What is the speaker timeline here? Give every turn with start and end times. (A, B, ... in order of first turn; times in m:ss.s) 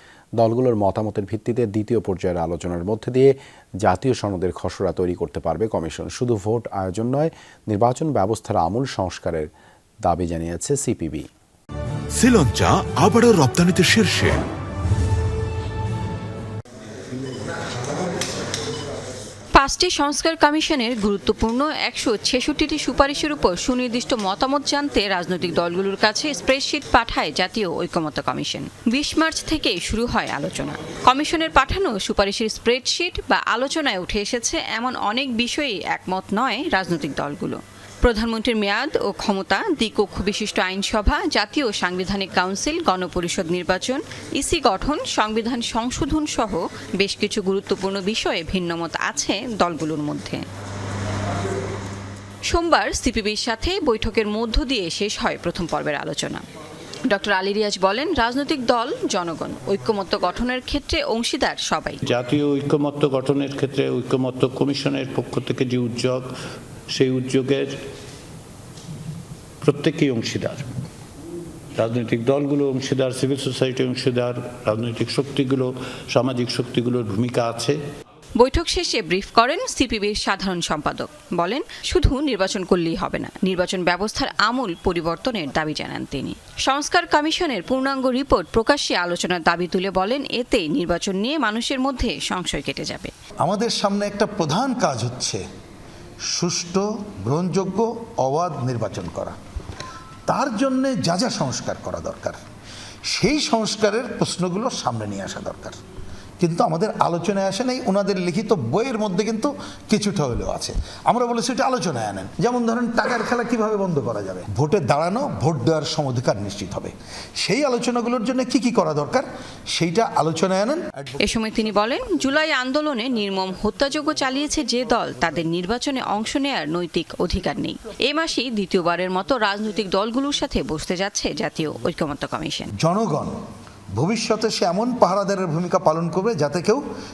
0:00.4-0:09.5 A
0:10.0-0:11.3 A
0:12.1-0:14.4 B
0:19.6-0:50.5 C
0:52.5-0:56.4 C
0:57.1-1:02.0 C
1:02.0-1:06.3 D
1:06.9-1:07.8 D
1:09.6-1:10.7 D
1:11.7-1:17.8 D
1:18.4-1:33.1 C
1:33.4-1:35.4 E
1:36.3-1:39.4 E
1:40.3-1:42.4 E
1:43.1-1:45.8 E
1:46.4-2:01.2 E
2:01.2-2:12.7 C
2:12.8-2:13.3 E
2:14.0-2:16.8 E